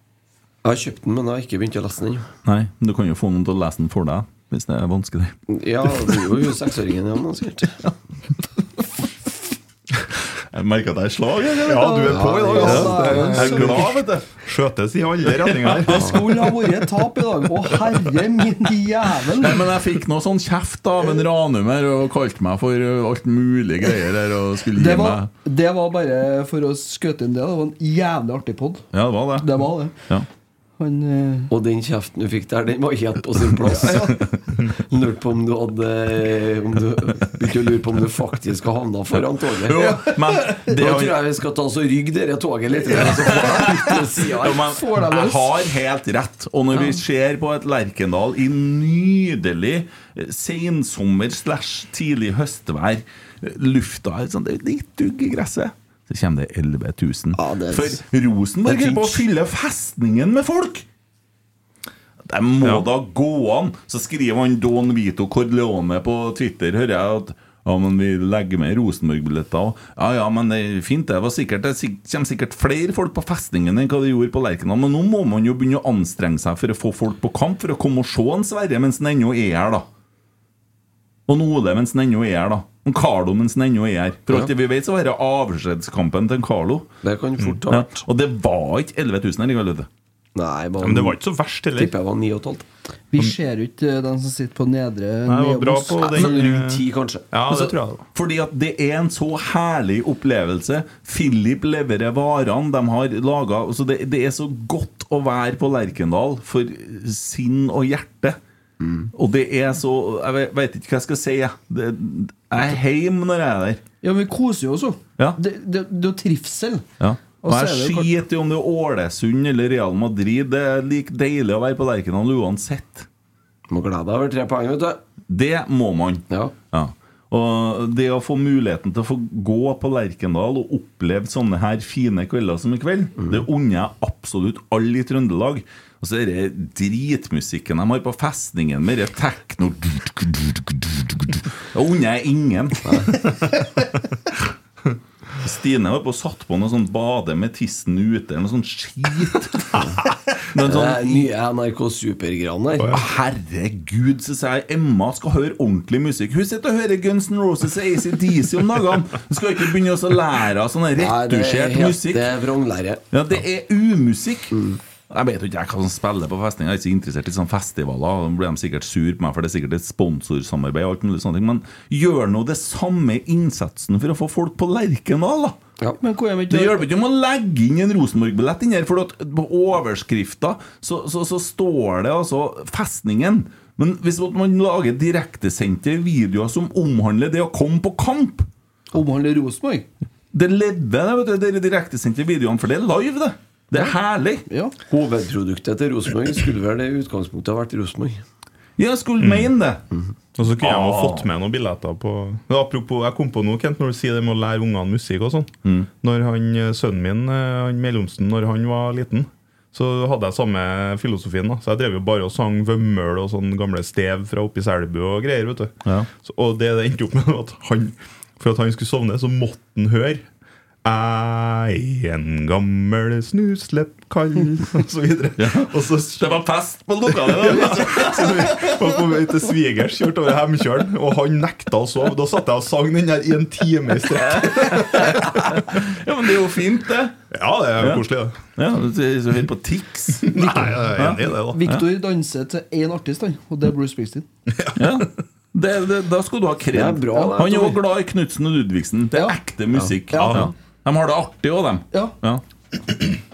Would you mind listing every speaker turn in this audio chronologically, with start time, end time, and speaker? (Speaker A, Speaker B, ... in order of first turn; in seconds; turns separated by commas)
Speaker A: 0.6-2.3, Speaker B: 2.5-5.4, Speaker A: 5.5-7.9, Speaker B: 10.5-12.0, Speaker C: 11.7-16.2, Speaker D: 11.7-13.9, Speaker A: 12.1-13.3, Speaker B: 12.6-14.3, Speaker B: 15.4-15.9, Speaker D: 15.9-19.6, Speaker B: 19.3-25.3, Speaker D: 24.8-28.9, Speaker B: 28.9-30.3, Speaker D: 29.4-29.9, Speaker D: 30.8-31.5, Speaker A: 31.5-34.2, Speaker D: 33.8-34.1, Speaker A: 34.8-39.9, Speaker B: 39.6-41.2, Speaker D: 39.8-40.7, Speaker A: 40.7-44.7, Speaker B: 42.9-60.9, Speaker D: 44.4-45.5, Speaker A: 57.4-58.0, Speaker A: 58.7-59.2, Speaker B: 62.2-79.9, Speaker B: 81.3-86.9, Speaker A: 87.0-88.0, Speaker B: 87.7-89.9, Speaker A: 90.3-91.2, Speaker C: 90.8-91.9, Speaker A: 91.8-92.7, Speaker D: 93.1-96.3, Speaker C: 95.3-98.0, Speaker A: 96.0-97.3, Speaker B: 97.5-108.4, Speaker B: 109.1-113.8, Speaker D: 114.0-116.8, Speaker B: 117.0-123.1, Speaker D: 117.4-118.1, Speaker A: 123.7-125.0, Speaker B: 125.3-142.9, Speaker A: 142.8-143.2, Speaker B: 145.4-149.8, Speaker B: 150.5-151.3, Speaker A: 150.6-153.0, Speaker B: 152.9-162.3, Speaker A: 161.0-163.1, Speaker B: 163.1-164.6, Speaker A: 164.5-164.8, Speaker B: 165.1-175.6, Speaker D: 176.0-176.9, Speaker B: 176.5-188.5, Speaker D: 188.9-189.9, Speaker B: 190.3-194.4, Speaker A: 194.9-198.2, Speaker B: 198.8-199.8, Speaker C: 199.2-199.5, Speaker C: 200.4-220.2, Speaker B: 200.6-201.3, Speaker C: 220.8-226.4, Speaker B: 225.4-229.0, Speaker C: 227.1-235.5, Speaker B: 234.3-237.2, Speaker C: 237.3-238.4, Speaker B: 237.8-241.8, Speaker C: 240.3-241.6, Speaker D: 240.4-244.3, Speaker C: 244.6-245.0, Speaker B: 244.8-252.4, Speaker A: 246.7-247.8, Speaker D: 247.1-247.4, Speaker D: 249.1-249.4, Speaker D: 250.1-250.5